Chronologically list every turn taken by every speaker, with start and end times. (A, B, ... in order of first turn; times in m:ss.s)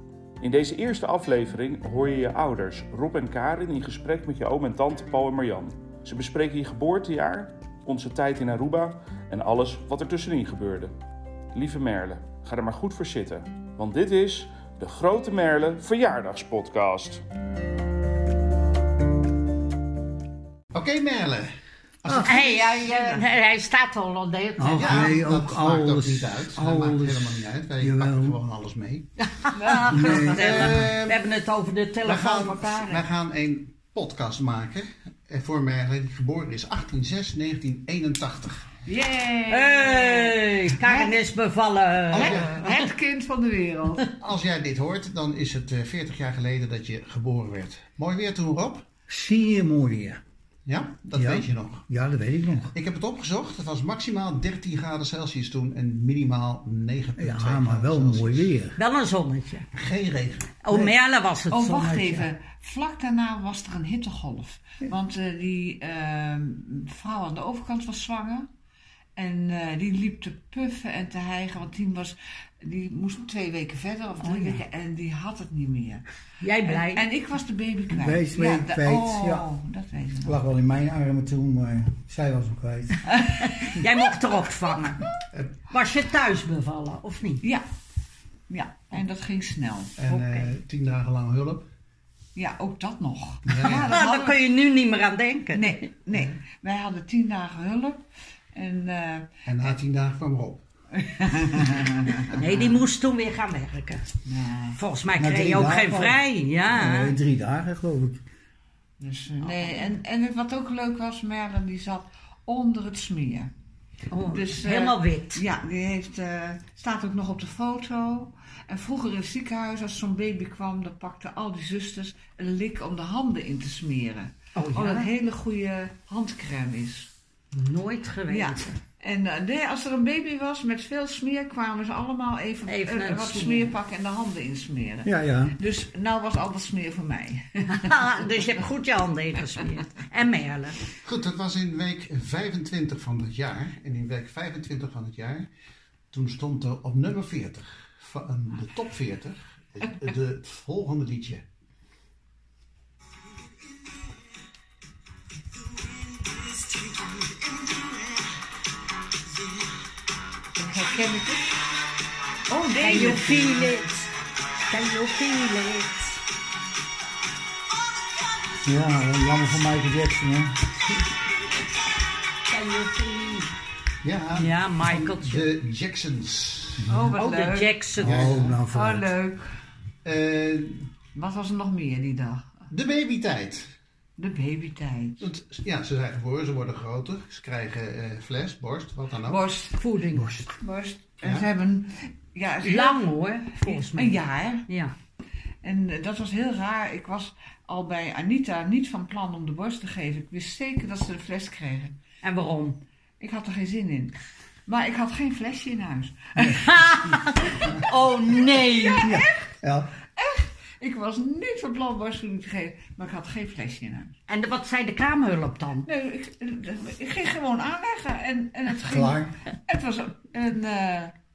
0:00.4-0:10.9 A
0:11.5-0:17.2 A
0:20.7-0:21.5 B
0:22.0-0:23.2 B
0:22.1-0:22.4 C
0:22.2-0:25.2 D
0:24.6-0:28.4 C
0:24.8-0:29.1 B
0:29.2-0:33.0 D
0:29.5-0:30.0 E
0:29.9-0:31.3 B
0:29.9-0:30.9 C
0:32.0-0:38.7 B
0:38.9-0:41.1 E
0:39.5-0:42.9 D
0:42.1-0:42.5 B
0:42.1-0:44.1 E
0:44.1-0:48.9 B
0:49.1-0:50.2 C
0:50.7-0:51.8 B
0:51.1-0:52.7 C
0:52.7-0:58.6 B
0:57.2-0:58.8 C
0:58.8-0:59.7 D
0:59.7-1:00.5 B
1:00.6-1:02.3 D
1:00.7-1:00.9 C
1:01.5-1:08.5 E
1:09.2-1:16.0 E
1:16.4-1:17.1 D
1:16.6-1:20.4 E
1:17.9-1:19.5 C
1:20.2-1:23.1 C
1:23.6-1:25.1 D
1:25.7-1:27.4 D
1:28.5-1:30.0 E
1:30.0-1:31.7 B
1:30.1-1:30.5 D
1:32.4-1:34.4 E
1:33.5-1:34.0 B
1:33.6-1:35.8 D
1:35.5-1:39.3 E
1:39.5-1:40.6 B
1:40.9-1:42.8 E
1:42.3-1:44.1 D
1:44.2-1:44.8 E
1:44.8-1:47.2 D
1:45.2-1:48.2 C
1:49.0-1:53.5 E
1:54.1-1:55.4 D
1:54.2-2:07.1 E
2:04.6-2:05.1 D
2:07.5-2:08.8 D
2:08.3-2:18.3 E
2:12.7-2:13.8 D
2:15.0-2:15.6 C
2:17.7-2:20.9 D
2:21.0-2:25.5 B
2:26.1-2:31.4 B
2:35.9-2:38.1 D
2:40.6-2:41.5 E
2:42.5-2:43.8 E
2:42.8-2:44.1 D
2:44.7-2:46.2 D
2:48.6-2:50.9 C
2:52.5-2:53.5 D
2:54.0-2:57.0 B
2:54.3-2:55.5 D
2:56.8-2:57.1 C
2:56.9-2:59.5 E
2:57.2-2:58.3 D
2:58.0-2:59.1 C
2:58.0-2:58.6 B
3:00.0-3:00.9 B
3:01.1-3:02.7 E
3:02.7-3:03.7 B
3:04.2-3:05.3 E
3:05.2-3:09.4 B
3:09.3-3:09.8 E
3:09.7-3:10.4 D
3:10.6-3:14.7 E
3:12.6-3:14.9 D
3:15.6-3:22.0 E
3:22.2-3:22.8 D
3:23.2-3:26.8 E
3:26.5-3:29.2 D
3:27.4-3:27.9 E
3:28.6-3:29.5 E
3:29.0-3:29.9 C
3:30.2-3:34.2 E
3:34.3-3:35.9 D
3:35.8-3:41.2 E
3:38.8-3:39.4 C